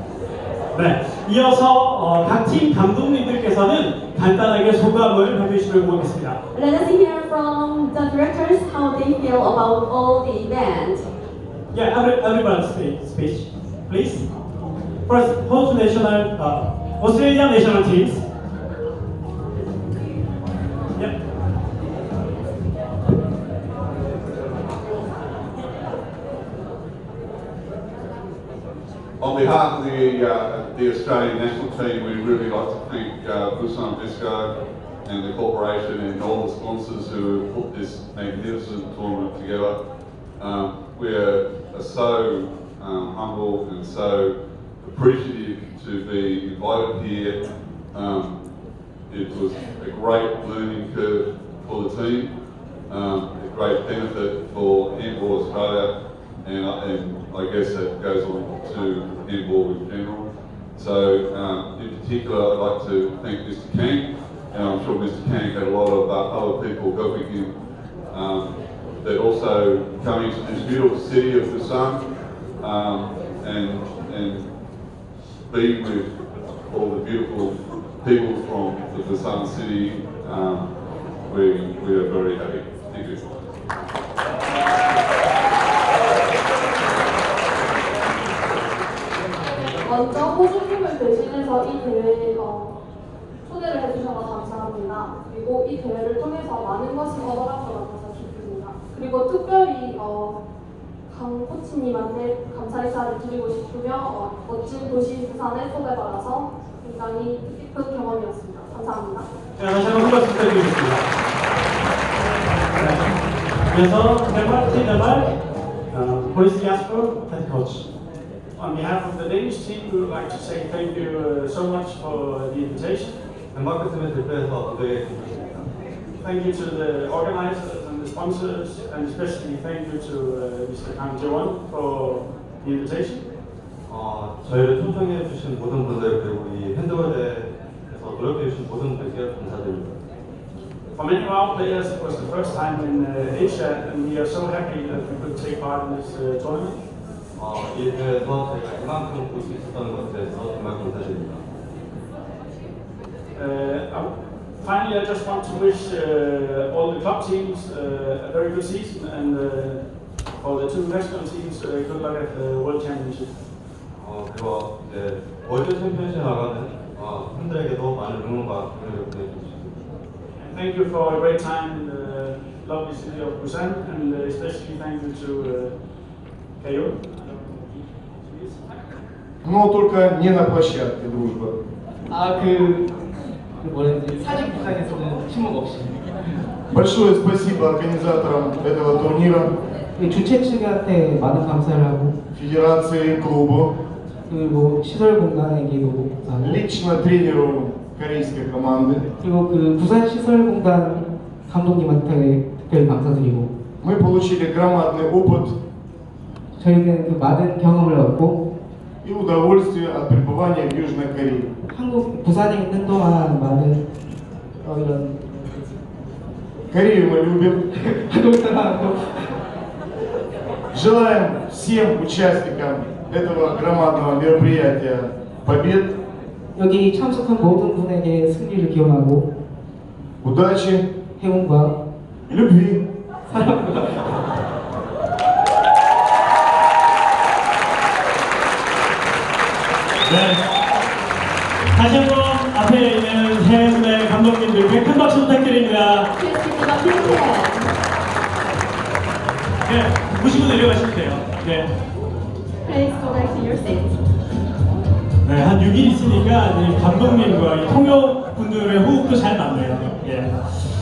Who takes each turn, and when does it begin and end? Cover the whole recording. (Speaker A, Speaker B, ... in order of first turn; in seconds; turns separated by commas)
Speaker A: 0.7-6.4, Speaker B: 6.5-11.1, Speaker A: 11.7-14.2, Speaker A: 15.1-18.2, Speaker C: 29.2-34.5, Speaker C: 35.0-39.8, Speaker C: 40.4-47.4, Speaker C: 47.9-48.4, Speaker C: 49.1-52.3, Speaker C: 52.9-55.9, Speaker C: 56.4-67.5, Speaker C: 68.1-72.1, Speaker C: 72.6-74.5, Speaker C: 75.5-76.1, Speaker C: 76.7-80.7, Speaker C: 81.3-83.3, Speaker D: 89.7-92.8, Speaker D: 93.5-100.4, Speaker D: 101.1-109.3, Speaker A: 109.6-111.1, Speaker A: 112.8-113.1, Speaker A: 113.7-115.3, Speaker A: 115.9-117.9, Speaker E: 118.6-123.2, Speaker F: 123.5-125.7, Speaker E: 126.2-133.2, Speaker F: 133.9-140.0, Speaker E: 140.9-146.8, Speaker F: 147.4-151.5, Speaker E: 153.3-154.1, Speaker E: 154.6-159.8, Speaker E: 160.4-163.3, Speaker F: 163.9-169.8, Speaker E: 170.4-175.8, Speaker E: 176.6-178.6, Speaker G: 179.4-181.6, Speaker H: 182.1-182.9, Speaker H: 183.6-186.1, Speaker G: 186.7-189.6, Speaker H: 190.0-192.2, Speaker G: 192.3-193.8, Speaker H: 194.3-196.6, Speaker G: 196.4-199.1, Speaker H: 199.2-203.5, Speaker G: 203.8-205.6, Speaker H: 206.6-208.4, Speaker G: 209.0-211.6, Speaker H: 211.7-213.8, Speaker H: 214.6-215.5, Speaker G: 216.7-217.7, Speaker H: 217.7-219.3, Speaker G: 220.7-225.9, Speaker H: 226.6-229.3, Speaker G: 230.2-230.9, Speaker H: 231.2-231.8, Speaker G: 232.3-232.8, Speaker H: 233.3-234.1, Speaker A: 240.1-240.4, Speaker A: 241.8-246.1, Speaker B: 246.2-247.7, Speaker A: 249.7-251.7, Speaker B: 252.6-254.0, Speaker A: 255.2-260.4